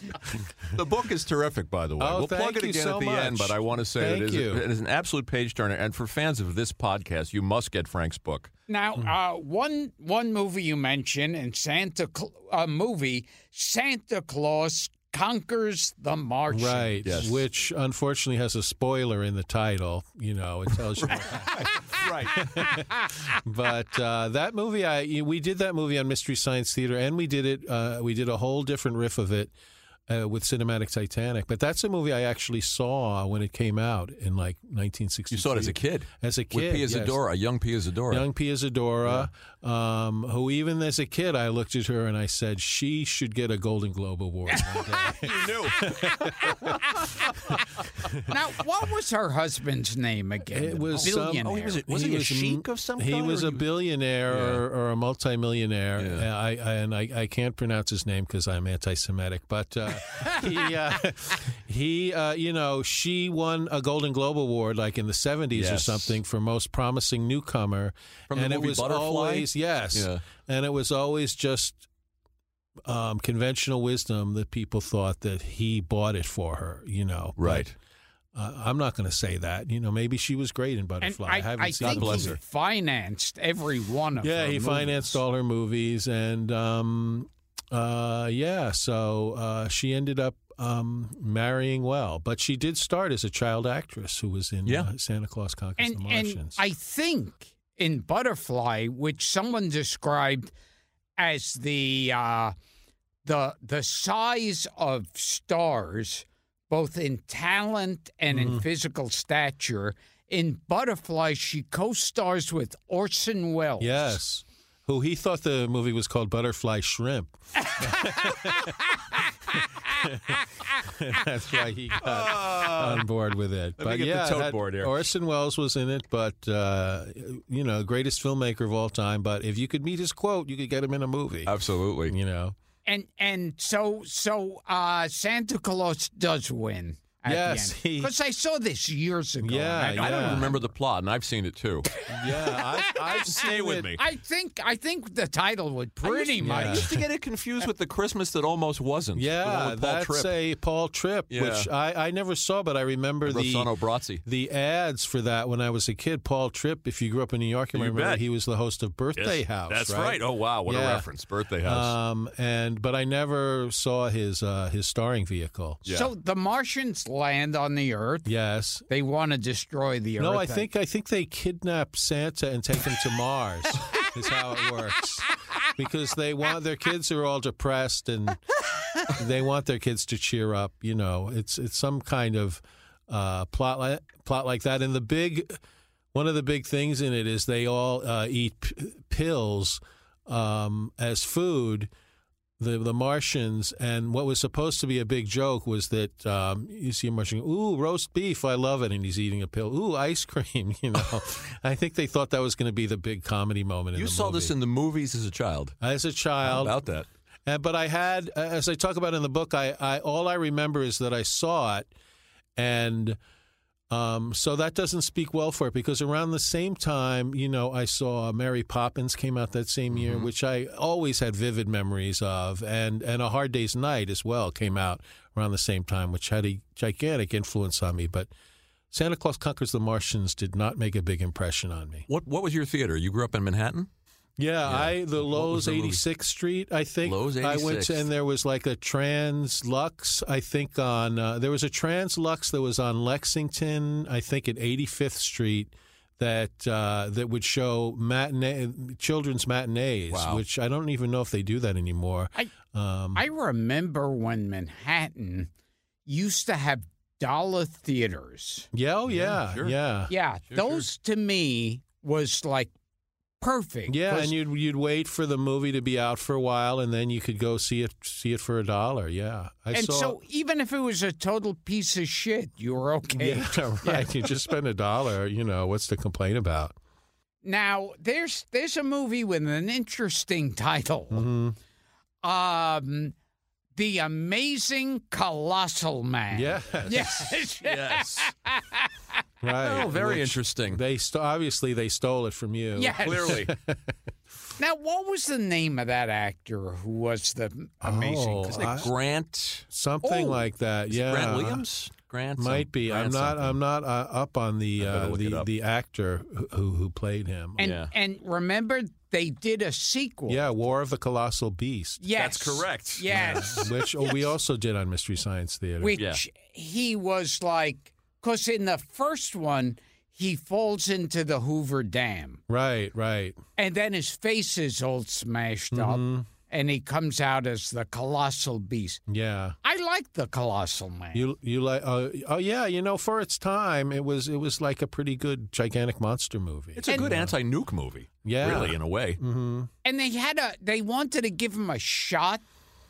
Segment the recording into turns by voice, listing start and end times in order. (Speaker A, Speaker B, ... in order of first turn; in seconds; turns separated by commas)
Speaker A: 0.6-8.5, Speaker B: 2.0-4.6, Speaker C: 8.7-17.0, Speaker B: 16.5-29.5, Speaker A: 17.0-17.4, Speaker A: 21.0-22.6, Speaker B: 30.1-37.2, Speaker A: 35.3-38.2, Speaker B: 38.1-46.5, Speaker C: 44.5-46.6, Speaker A: 45.1-46.0, Speaker C: 48.3-51.8, Speaker B: 50.5-71.8, Speaker A: 51.0-53.6, Speaker A: 54.3-54.6, Speaker A: 56.0-56.2, Speaker A: 65.5-66.2, Speaker A: 68.3-70.2, Speaker B: 72.8-77.7, Speaker A: 77.4-77.7, Speaker B: 78.3-82.4, Speaker C: 81.0-85.2, Speaker A: 81.8-82.4, Speaker B: 84.2-96.6, Speaker C: 95.8-100.5, Speaker C: 101.2-102.5, Speaker C: 103.2-114.2, Speaker B: 108.3-108.6, Speaker B: 113.8-118.8, Speaker B: 119.8-131.5, Speaker A: 122.0-123.0, Speaker A: 123.8-125.0, Speaker A: 131.4-132.1, Speaker B: 132.1-132.5, Speaker C: 132.8-140.6, Speaker B: 137.2-138.1, Speaker B: 139.4-140.6, Speaker A: 139.9-141.9, Speaker B: 142.1-144.0, Speaker C: 142.3-143.4, Speaker A: 143.3-144.0, Speaker C: 144.0-146.9, Speaker A: 146.0-150.3, Speaker B: 146.4-147.0, Speaker B: 149.2-153.7, Speaker A: 151.3-151.7, Speaker A: 153.2-154.2, Speaker B: 154.2-161.1, Speaker A: 157.7-158.2, Speaker A: 159.2-161.9, Speaker B: 161.6-165.8, Speaker A: 165.8-166.1, Speaker C: 165.9-168.3, Speaker B: 168.2-168.8, Speaker C: 168.9-170.7, Speaker B: 170.2-178.4, Speaker B: 179.0-185.6, Speaker B: 186.1-191.9, Speaker B: 192.6-204.5, Speaker A: 203.9-205.7, Speaker B: 205.8-206.8, Speaker A: 206.4-207.1, Speaker B: 207.4-211.9, Speaker B: 212.6-213.2, Speaker B: 213.9-228.3, Speaker A: 219.9-220.3, Speaker B: 228.9-232.1, Speaker A: 232.1-233.9, Speaker B: 234.4-253.2, Speaker A: 234.6-236.0, Speaker A: 237.0-238.1, Speaker A: 250.1-250.4, Speaker C: 253.1-255.5, Speaker C: 256.1-258.7, Speaker B: 258.7-260.1, Speaker A: 259.1-259.8, Speaker C: 260.1-262.7, Speaker A: 260.5-260.8, Speaker C: 263.4-264.3, Speaker B: 263.9-270.2, Speaker C: 269.7-274.1, Speaker B: 273.1-276.8, Speaker C: 277.4-281.2, Speaker B: 281.1-281.6, Speaker C: 282.2-283.1, Speaker C: 283.8-288.9, Speaker B: 286.3-287.3, Speaker A: 287.6-288.3, Speaker B: 289.4-293.8, Speaker A: 289.6-290.8, Speaker C: 292.8-293.4, Speaker A: 293.0-293.5, Speaker C: 294.6-298.8, Speaker B: 297.8-298.9, Speaker A: 298.5-299.6, Speaker B: 299.7-301.6, Speaker C: 300.0-300.4, Speaker A: 300.9-303.6, Speaker B: 302.4-307.7, Speaker A: 304.8-305.5, Speaker C: 307.6-310.5, Speaker A: 307.6-307.9, Speaker B: 310.3-312.0, Speaker C: 312.0-313.7, Speaker A: 312.1-313.6, Speaker B: 313.1-316.0, Speaker C: 315.8-322.4, Speaker B: 322.5-323.4, Speaker C: 323.6-329.0, Speaker B: 325.7-326.3, Speaker B: 329.1-329.6, Speaker C: 329.6-331.2, Speaker B: 331.1-337.3, Speaker A: 336.8-339.2, Speaker B: 338.2-339.7, Speaker C: 339.8-342.4